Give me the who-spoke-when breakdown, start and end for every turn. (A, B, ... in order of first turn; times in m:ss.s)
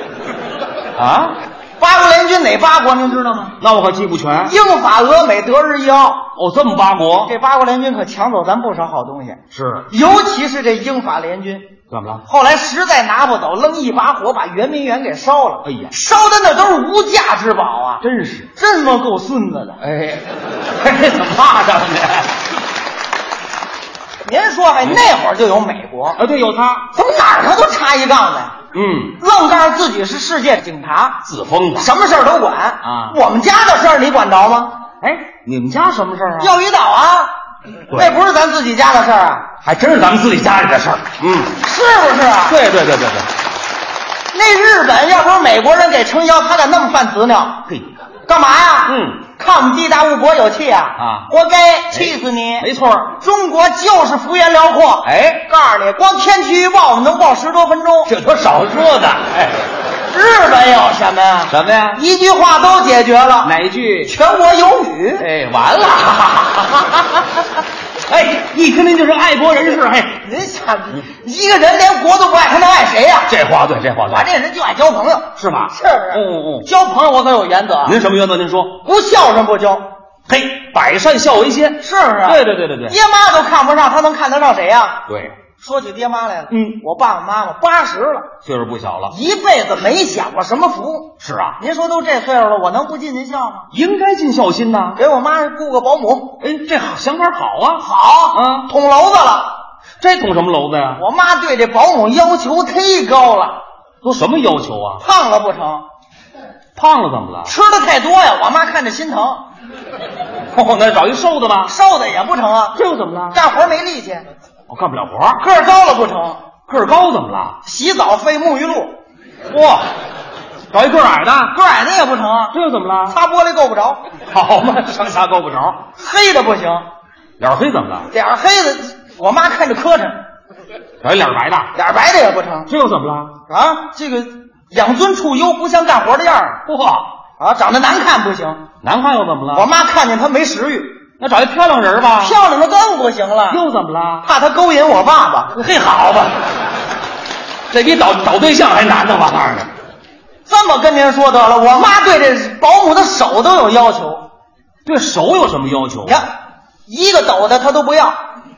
0:01.0-0:01.4 A
0:01.8-0:03.6 B
0:03.6-0:04.6 A
0:04.4-0:06.3 B
0:06.4-0:07.4 A
0:07.2-0:11.7 B
0:09.5-0:09.9 A
0:11.9-0:12.2 A
0:12.2-0:18.0 B
0:15.6-0:15.9 A
0:18.0-0:18.5 A
0:18.6-0:19.8 B
0:19.8-0:22.3 A
0:24.2-0:26.2 B
0:26.2-0:26.9 A
0:26.9-0:28.6 B
0:28.7-0:29.2 A
0:29.2-0:31.2 B
0:31.2-0:31.9 A
0:31.8-0:34.8 B
0:32.8-0:33.2 A
0:35.0-0:36.6 A
0:36.4-0:37.3 B
0:37.9-0:39.5 B
0:39.6-0:41.6 A
0:41.6-0:42.6 B
0:42.5-0:43.3 A
0:44.3-0:47.6 B
0:47.7-0:48.0 A
0:48.3-0:58.1 B
0:48.9-0:49.2 A
0:51.0-0:51.3 A
0:51.9-0:53.1 A
0:55.0-0:55.4 A
0:58.1-0:59.7 A
1:00.1-1:05.3 B
1:01.5-1:02.0 A
1:03.4-1:04.1 A
1:05.2-1:07.0 A
1:08.1-1:10.2 A
1:10.2-1:13.4 B
1:13.3-1:14.3 A
1:14.1-1:18.0 B
1:15.4-1:16.7 A
1:17.8-1:18.8 A
1:18.8-1:19.9 B
1:20.3-1:23.0 A
1:21.8-1:25.0 B
1:25.1-1:25.3 A
1:25.6-1:28.3 B
1:26.5-1:26.8 A
1:28.4-1:29.1 A
1:29.1-1:33.7 B
1:31.2-1:31.6 A
1:33.7-1:35.0 A
1:35.0-1:36.4 B
1:36.4-1:38.7 A
1:37.8-1:39.6 B
1:40.0-1:41.0 A
1:41.0-1:43.6 B
1:44.0-1:45.0 A
1:45.0-1:45.9 B
1:46.8-1:47.5 A
1:47.4-1:49.4 B
1:50.5-1:51.7 A
1:51.6-1:52.8 B
1:52.7-1:53.4 A
1:53.3-1:54.3 B
1:54.7-1:55.4 A
1:55.4-1:56.4 B
1:56.7-1:57.6 A
1:57.6-1:59.0 B
1:59.5-1:59.9 A
2:00.7-2:01.5 A
2:01.5-2:02.6 B
2:02.5-2:03.2 A
2:03.1-2:04.0 B
2:04.3-2:05.8 A
2:06.0-2:06.8 B
2:07.4-2:08.1 A
2:08.1-2:10.2 B
2:11.0-2:11.7 A
2:11.7-2:12.7 B
2:12.7-2:13.4 A
2:13.5-2:16.6 B
2:16.7-2:17.1 A
2:17.4-2:18.6 B
2:18.8-2:19.7 A
2:19.5-2:21.0 B
2:21.2-2:22.4 A
2:22.2-2:23.6 B
2:23.5-2:24.2 A
2:24.2-2:25.6 B
2:25.6-2:26.3 A
2:27.7-2:29.7 A
2:30.5-2:34.3 B
2:34.8-2:36.2 A
2:36.9-2:38.2 B